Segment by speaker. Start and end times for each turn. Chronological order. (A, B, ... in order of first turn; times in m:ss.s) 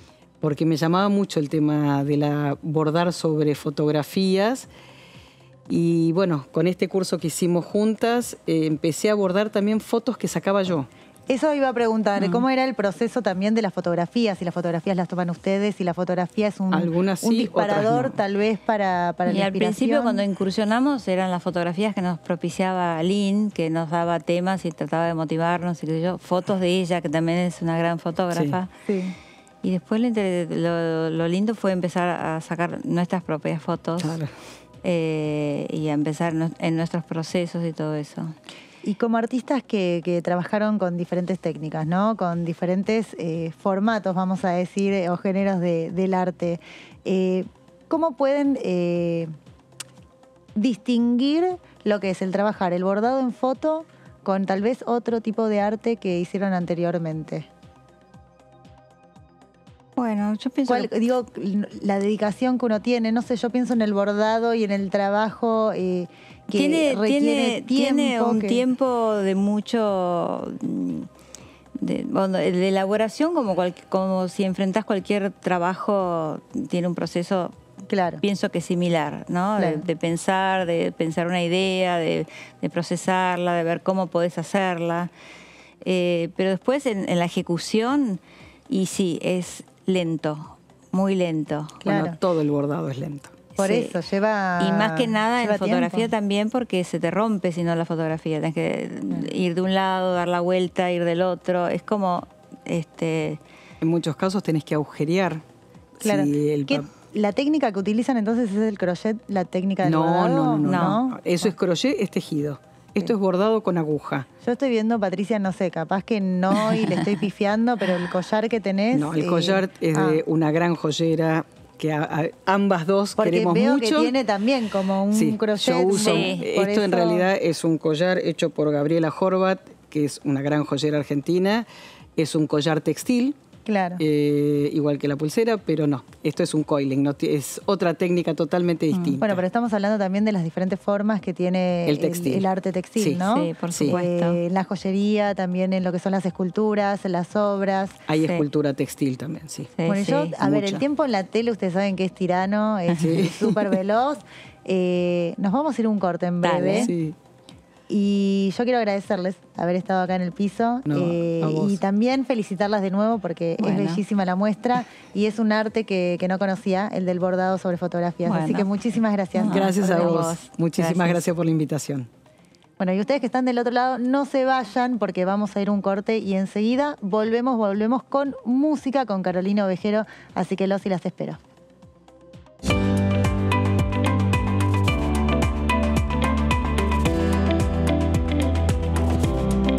0:00.4-0:04.7 A
0:05.7-0:10.9 A
0:11.3-0:20.2 B
0:12.2-0:12.4 C
0:16.7-0:18.2 A
0:19.3-0:28.7 C
0:28.3-0:28.6 A
0:28.9-0:29.2 B
0:29.6-0:34.2 C
0:34.0-0:34.3 A
0:34.8-0:38.4 C
0:38.8-0:49.3 B
0:50.6-0:57.5 B
1:00.0-1:00.9 C
1:00.7-1:08.6 B
1:06.5-1:11.1 C
1:11.8-1:17.6 C
1:17.9-1:18.2 B
1:18.2-1:25.1 C
1:19.6-1:19.8 B
1:25.8-1:31.9 C
1:31.8-1:32.2 B
1:31.9-1:33.4 A
1:33.6-1:34.0 C
1:33.6-1:36.1 B
1:34.6-1:43.4 C
1:43.8-1:45.4 A
1:46.0-1:46.9 A
1:46.0-1:51.5 B
1:49.8-1:54.3 A
1:50.6-1:51.0 C
1:54.4-2:00.2 B
1:58.9-2:04.1 A
2:03.2-2:07.3 B
2:05.1-2:11.7 A
2:05.9-2:06.5 C
2:12.2-2:13.4 A
2:13.7-2:14.0 B
2:14.0-2:19.4 A
2:18.9-2:19.2 C
2:19.2-2:28.0 B
2:21.9-2:22.5 A
2:23.2-2:24.4 C
2:23.7-2:24.0 A
2:28.1-2:29.7 A
2:28.1-2:28.4 C
2:29.7-2:30.4 C
2:29.9-2:36.9 B
2:30.4-2:30.8 A
2:33.0-2:33.5 A
2:36.4-2:37.0 C
2:36.8-2:37.2 A
2:37.9-2:50.3 B
2:40.9-2:41.8 A
2:43.6-2:44.0 C
2:48.2-2:48.7 C
2:49.4-2:51.3 C
2:49.5-2:52.1 A
2:52.8-3:01.4 B